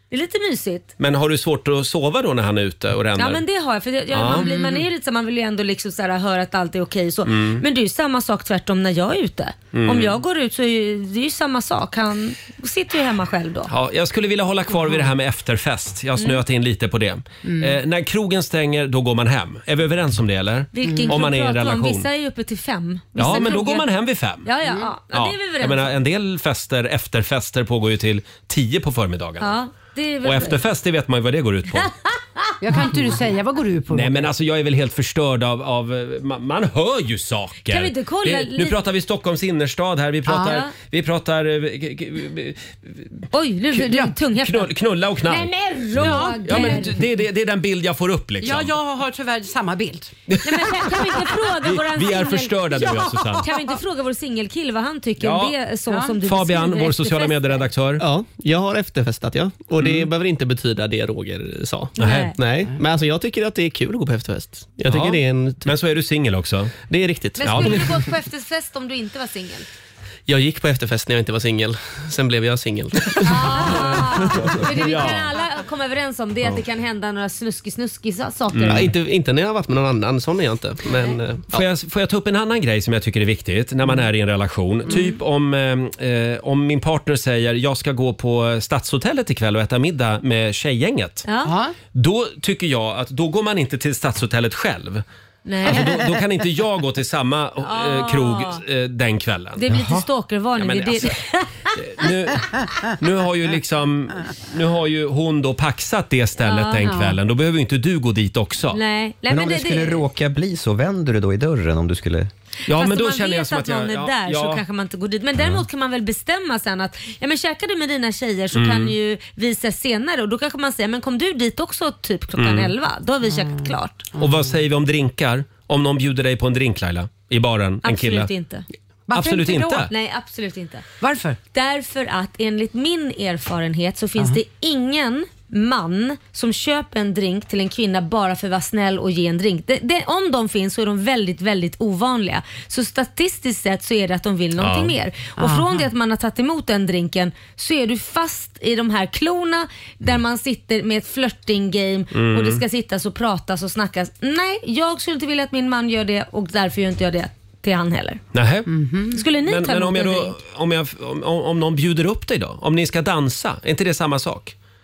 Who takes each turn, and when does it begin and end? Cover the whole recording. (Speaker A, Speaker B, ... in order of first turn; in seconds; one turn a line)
Speaker A: 0.1-0.9
Speaker B: 1.0-3.4
Speaker A: 3.1-13.7
Speaker B: 4.1-4.5
Speaker C: 4.3-4.8
Speaker B: 7.2-7.6
Speaker B: 9.7-10.2
Speaker B: 13.7-22.1
Speaker C: 17.4-17.7
Speaker A: 20.7-23.9
Speaker C: 20.8-21.2
Speaker B: 23.2-24.5
Speaker A: 24.4-25.9
Speaker B: 25.1-29.5
Speaker A: 29.4-30.6
Speaker B: 30.2-31.9
Speaker A: 31.8-32.8
Speaker C: 32.6-34.3
Speaker B: 33.9-43.2
Speaker A: 37.7-38.8
Speaker C: 40.3-40.6
Speaker A: 40.3-40.7
Speaker A: 43.3-44.7
Speaker B: 44.3-48.7
Speaker A: 45.3-47.0
Speaker C: 46.0-46.8
Speaker C: 48.4-50.1
Speaker A: 50.4-52.9
Speaker B: 51.6-53.4
Speaker C: 52.8-53.5
Speaker A: 53.4-57.6
Speaker B: 55.2-55.5
Speaker C: 55.9-56.1
Speaker B: 56.2-58.0
Speaker D: 58.0-65.7
Speaker B: 59.8-60.1
Speaker A: 62.0-62.3
Speaker B: 62.0-62.3
Speaker B: 64.8-66.8
Speaker D: 66.9-67.9
Speaker A: 67.4-69.7
Speaker B: 67.4-67.9
Speaker D: 70.3-74.6
Speaker A: 73.2-78.9
Speaker B: 73.5-75.3
Speaker B: 78.5-78.9
Speaker D: 78.7-81.7
Speaker B: 81.5-91.2
Speaker A: 84.9-85.1
Speaker A: 91.2-91.5
Speaker C: 91.4-91.8
Speaker B: 91.9-95.0
Speaker A: 95.4-96.0
Speaker B: 95.6-99.7
Speaker A: 97.6-98.6
Speaker A: 99.6-102.1
Speaker E: 99.7-100.0
Speaker B: 100.5-101.2
Speaker B: 101.7-108.8
Speaker A: 106.4-107.0
Speaker C: 106.8-107.2
Speaker A: 108.7-110.0
Speaker E: 109.3-112.3
Speaker B: 112.7-114.6
Speaker A: 112.7-124.1
Speaker B: 118.5-118.9
Speaker B: 122.3-122.7
Speaker C: 123.3-124.5
Speaker B: 124.2-128.3
Speaker A: 127.8-128.6
Speaker C: 129.1-129.9
Speaker B: 129.1-129.9
Speaker A: 129.8-130.8
Speaker C: 131.0-131.4
Speaker A: 131.5-158.2
Speaker B: 144.6-144.9
Speaker C: 145.4-145.9
Speaker B: 152.1-152.6
Speaker B: 158.3-158.7
Speaker C: 158.7-159.2
Speaker A: 159.1-160.4
Speaker B: 159.4-164.5